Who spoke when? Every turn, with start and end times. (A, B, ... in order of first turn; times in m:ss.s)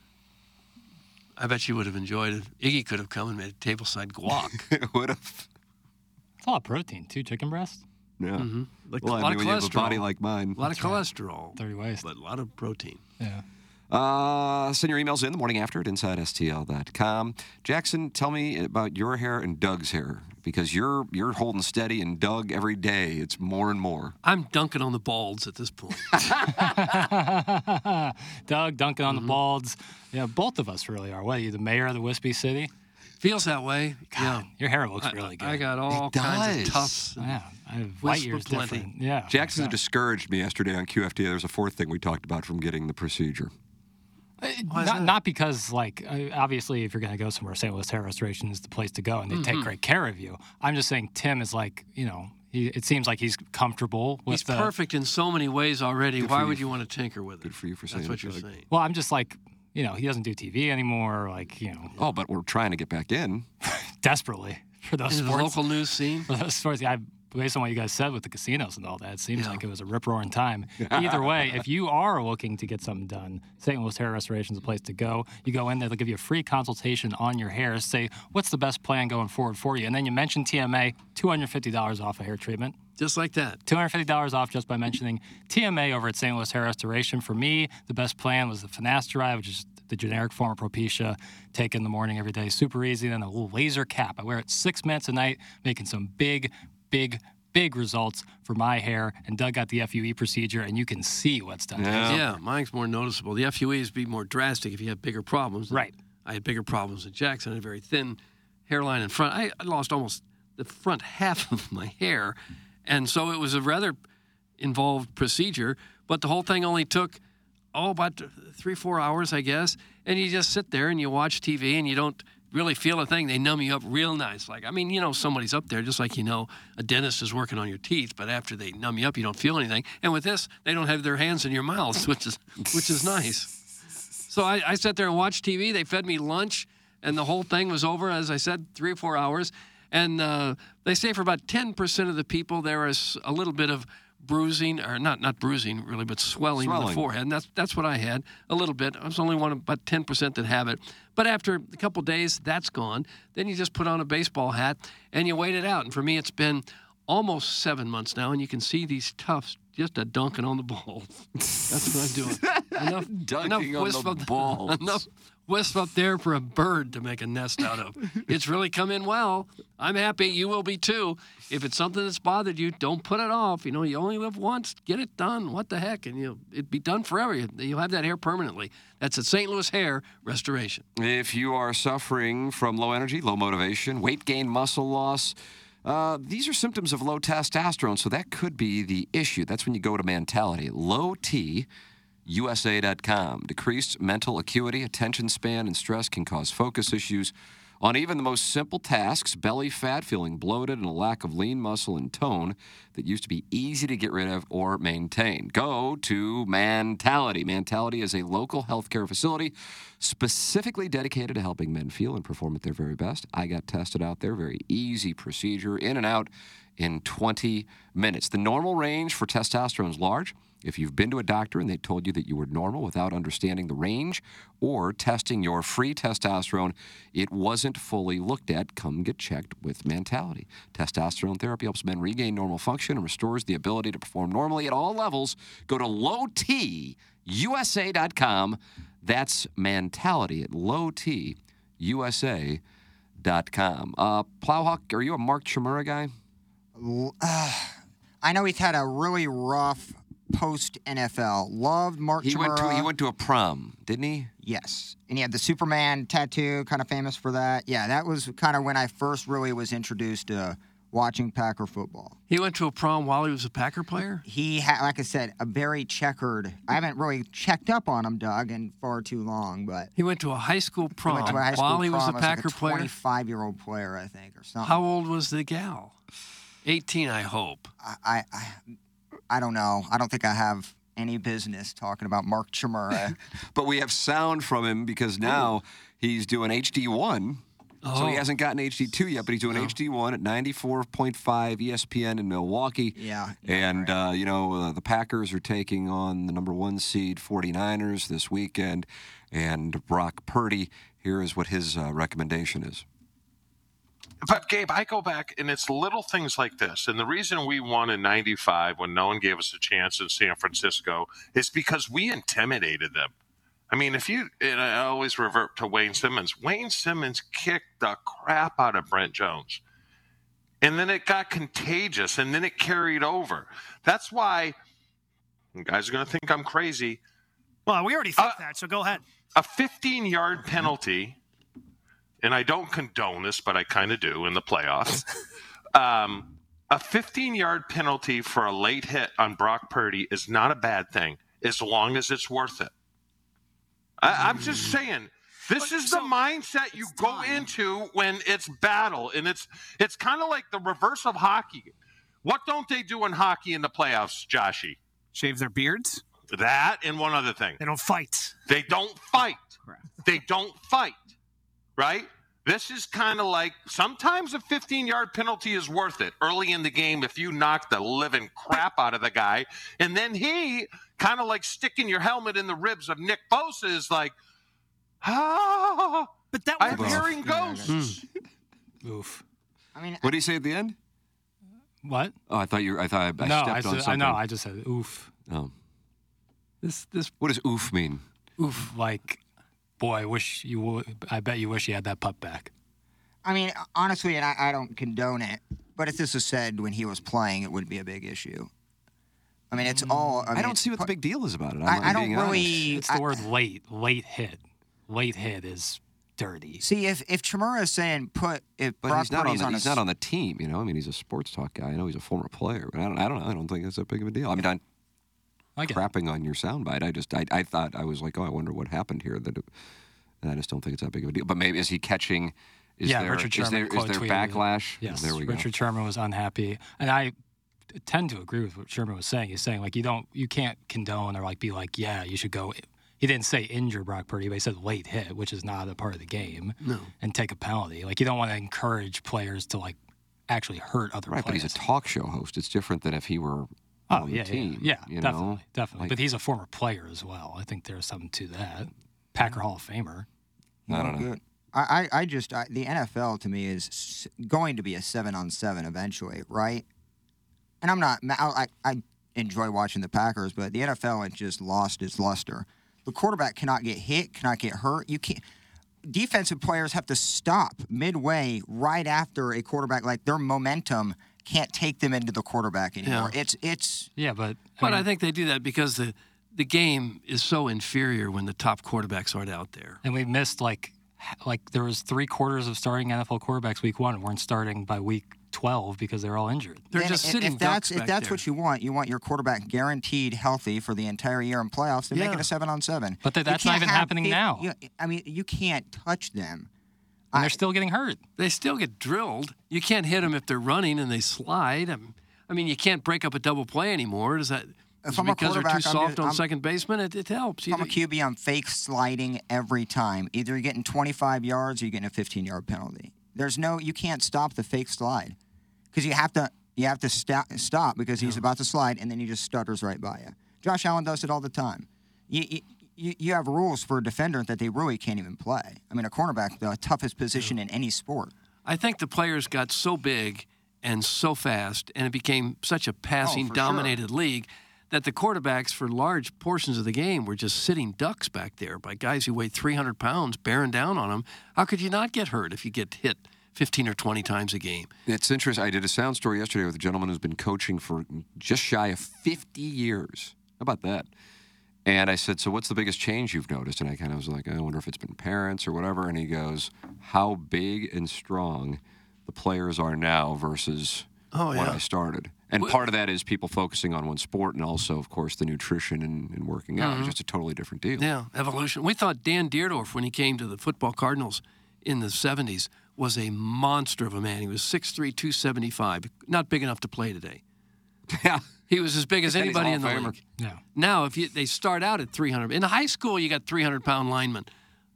0:01.4-0:04.7 A
0:04.3-0:05.5 B
0:06.4-0:07.8 C
0:08.2-0:10.6 B
0:08.4-0:13.0 A
0:10.7-0:11.0 C
0:11.6-0:12.0 C
0:13.9-0:24.1 B
0:24.2-0:26.2 A
0:26.1-0:26.4 B
0:26.5-0:32.7 C
0:29.1-0:29.4 A
0:33.2-0:34.5 A
0:34.1-0:35.6 C
0:35.0-0:37.4 A
0:35.9-0:37.1 B
0:37.2-0:39.8 C
0:38.0-0:38.9 A
0:39.3-0:43.5 B
0:44.4-0:54.7 C
0:44.7-0:45.1 A
0:49.3-0:49.7 A
0:54.3-0:58.7 A
0:56.2-0:56.6 B
0:57.4-0:58.4 B
0:58.7-1:02.0 C
1:02.0-1:03.4 B
1:03.6-1:05.6 C
1:05.1-1:06.3 A
1:06.3-1:22.8 C
1:09.4-1:09.6 A
1:10.8-1:11.6 B
1:23.0-1:23.6 A
1:23.6-1:42.2 C
1:41.8-1:42.3 B
1:42.0-1:54.0 A
1:54.6-1:57.2 A
1:57.7-2:13.5 A
2:14.3-3:00.8 A
2:26.6-2:27.0 B
2:42.3-2:45.0 B
3:01.0-3:11.7 B
3:12.2-4:02.6 B
4:03.2-4:06.1 B
4:06.7-4:12.9 D
4:12.2-4:14.3 B
4:14.4-4:22.2 D
4:22.3-4:24.2 A
4:24.2-4:29.9 D
4:30.0-4:32.9 A
4:31.0-4:34.8 D
4:34.6-4:35.9 A
4:36.6-4:37.7 A
4:37.8-4:38.7 D
4:39.3-4:43.2 D
4:43.5-5:02.8 B
4:47.8-4:48.2 A
4:49.5-4:49.7 A
4:52.9-4:53.9 D
5:04.2-5:13.1 E
5:13.7-5:19.6 E
5:20.6-5:24.6 E
5:25.6-5:27.0 E
5:27.6-5:29.0 F
5:28.2-5:28.4 E
5:29.4-5:31.2 E
5:32.2-5:35.0 E
5:35.7-5:42.7 E
5:44.0-5:51.7 E
5:45.6-5:46.1 F
5:46.7-5:47.5 F
5:52.2-5:54.8 E
5:55.1-5:56.0 F
5:56.3-5:57.6 E
5:57.6-5:58.4 F
5:58.5-5:59.5 E
6:00.0-6:01.0 E
6:01.8-6:14.1 E
6:15.0-6:18.0 E
6:16.3-6:17.1 F
6:16.6-6:17.7 D
6:17.6-6:18.0 A
6:18.8-6:19.2 C
6:19.7-6:20.1 D
6:20.0-6:20.8 B
6:21.8-6:22.2 C
6:22.3-6:24.2 B
6:23.2-6:25.1 C
6:26.6-6:27.1 A
6:27.2-6:28.0 B
6:28.4-6:28.7 A
6:28.6-6:29.2 C
6:29.8-6:32.5 C
6:33.2-6:38.5 D
6:39.5-6:40.9 D
6:39.8-6:40.2 C
6:40.3-6:42.7 B
6:41.6-6:43.2 D
6:42.6-6:46.6 C
6:46.6-6:49.8 D
6:48.8-6:54.6 B
6:55.6-6:55.8 C
6:55.6-6:59.4 B
7:00.2-7:05.5 B
7:02.8-7:07.1 C
7:07.7-7:19.8 C
7:16.6-7:16.9 A
7:20.3-7:21.6 C
7:21.1-7:26.0 B
7:23.9-7:30.1 C
7:30.7-7:36.6 D
7:30.7-7:31.1 B
7:37.6-7:45.2 D
7:45.9-7:53.9 D
7:52.8-7:53.1 A
7:54.0-7:54.9 C
7:54.6-7:59.8 A
7:59.8-8:06.7 C
8:06.7-8:08.2 A
8:06.7-8:16.5 D
8:11.9-8:12.3 A
8:13.0-8:14.5 C
8:17.1-8:17.4 D
8:17.1-8:18.0 C
8:18.2-8:27.8 A
8:24.8-8:26.2 D
8:27.5-8:35.2 D
8:35.7-8:48.1 D
8:48.4-9:04.7 A
8:53.0-8:53.8 D
9:04.9-9:10.9 B
9:11.6-9:27.8 B
9:21.1-9:21.6 A
9:26.6-9:26.9 A
9:27.8-9:37.2 A
9:37.9-9:38.3 B
9:38.5-9:40.0 A
9:39.0-9:40.0 B
9:40.5-9:44.3 A